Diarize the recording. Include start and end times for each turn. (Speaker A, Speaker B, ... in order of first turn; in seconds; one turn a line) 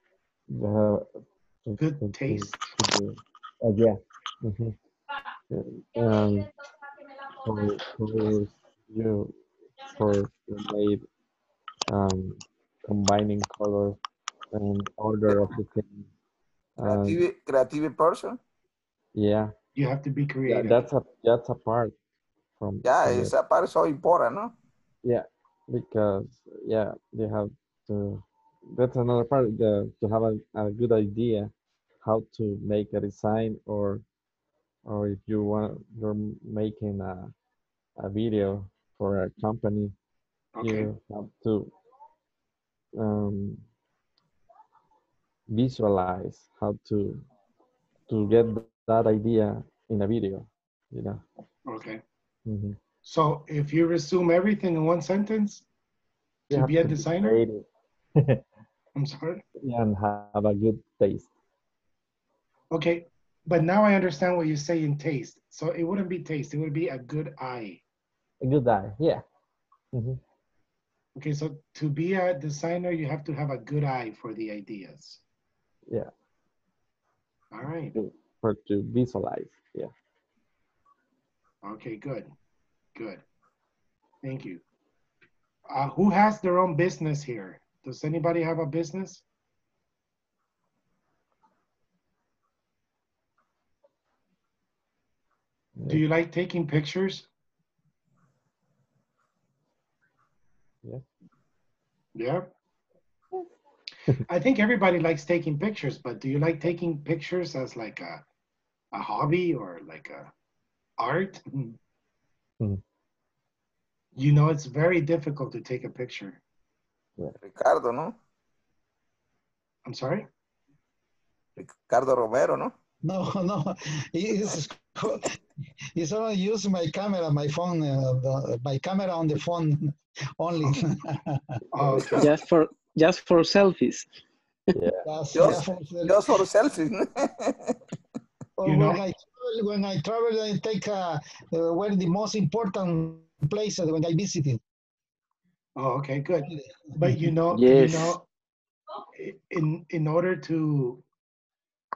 Speaker A: 0.5-4.8
Speaker B: 1.8-2.8
Speaker A: 5.5-6.5
Speaker A: 7.4-11.1
Speaker A: 11.9-14.0
Speaker A: 14.5-16.1
Speaker A: 16.8-17.2
Speaker C: 16.9-18.4
Speaker A: 19.2-19.5
Speaker B: 19.8-20.9
Speaker A: 20.5-21.9
Speaker A: 22.6-23.3
Speaker C: 22.8-24.5
Speaker A: 25.0-31.5
Speaker A: 32.0-34.0
Speaker A: 34.9-37.3
Speaker A: 38.0-39.9
Speaker B: 40.6-40.9
Speaker A: 40.6-41.7
Speaker A: 43.0-43.6
Speaker A: 45.5-47.2
Speaker A: 48.1-51.2
Speaker B: 51.7-52.0
Speaker A: 52.5-52.8
Speaker B: 53.0-55.6
Speaker A: 56.5-57.7
Speaker B: 56.5-57.4
Speaker A: 58.2-58.4
Speaker B: 59.0-59.4
Speaker A: 59.6-61.3
Speaker B: 62.7-67.8
Speaker A: 68.4-69.2
Speaker A: 69.9-70.2
Speaker B: 71.2-75.2
Speaker B: 77.5-78.0
Speaker A: 78.0-79.9
Speaker B: 81.6-82.3
Speaker B: 83.0-83.2
Speaker B: 84.2-84.6
Speaker B: 85.7-89.2
Speaker B: 95.9-97.3
Speaker B: 102.2-102.5
Speaker B: 104.3-108.2
Speaker B: 108.9-110.3
Speaker B: 111.0-111.8
Speaker B: 114.2-116.4
Speaker C: 117.4-118.2
Speaker B: 119.8-120.3
Speaker C: 121.6-122.7
Speaker D: 123.0-125.3
Speaker D: 126.0-131.4
Speaker B: 131.7-132.3
Speaker E: 132.2-134.1
Speaker A: 134.8-135.5
Speaker D: 135.1-136.2
Speaker C: 135.3-137.8
Speaker D: 138.6-144.6
Speaker B: 138.7-139.0
Speaker B: 145.8-148.2
Speaker D: 146.5-146.8
Speaker E: 147.5-148.2
Speaker B: 149.2-151.0